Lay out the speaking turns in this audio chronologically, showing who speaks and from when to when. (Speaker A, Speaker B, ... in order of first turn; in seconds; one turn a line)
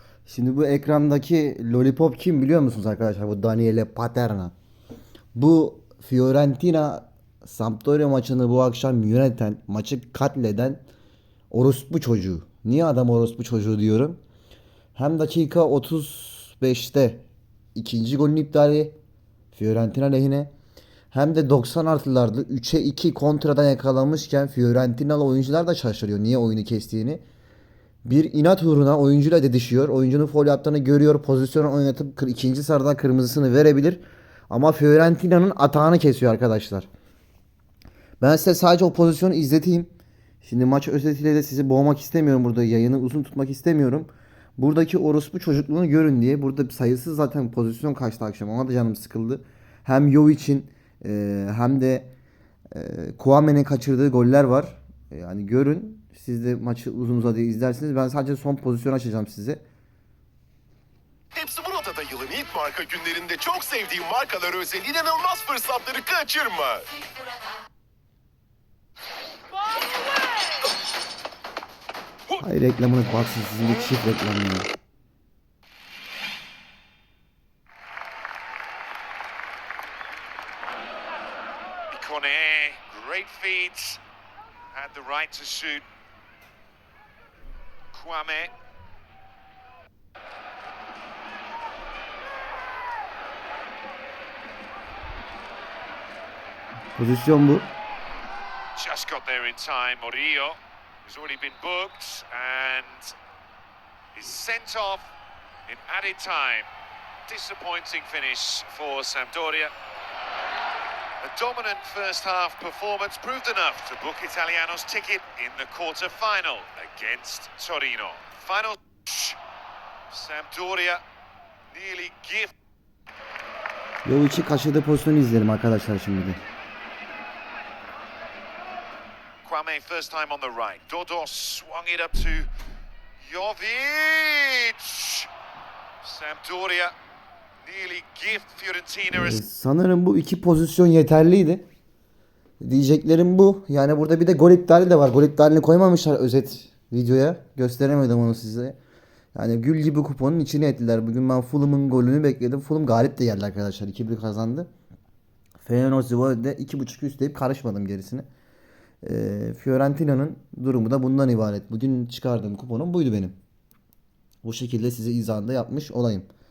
Speaker A: 0.2-4.5
Speaker A: 5.3-10.8
Speaker A: 11.5-14.2
Speaker A: 14.9-18.9
Speaker A: 19.5-20.5
Speaker A: 21.1-27.2
Speaker A: 28.0-36.9
Speaker A: 38.2-39.9
Speaker A: 40.4-52.1
Speaker A: 52.7-59.6
Speaker B: 61.3-66.8
Speaker A: 72.4-74.7
Speaker C: 81.9-84.0
Speaker C: 84.7-85.8
Speaker C: 87.9-88.5
Speaker A: 97.0-97.7
Speaker C: 98.8-103.1
Speaker C: 104.1-105.1
Speaker C: 105.7-106.7
Speaker C: 107.3-109.7
Speaker C: 111.2-119.4
Speaker C: 120.1-121.0
Speaker C: 121.7-122.5
Speaker A: 124.0-126.4
Speaker C: 129.4-132.5
Speaker C: 133.2-135.3
Speaker C: 136.0-136.9
Speaker C: 137.6-139.4
Speaker A: 139.1-141.6
Speaker A: 142.6-148.8
Speaker A: 149.3-154.7
Speaker A: 155.6-158.2
Speaker A: 159.0-163.3
Speaker A: 164.4-166.3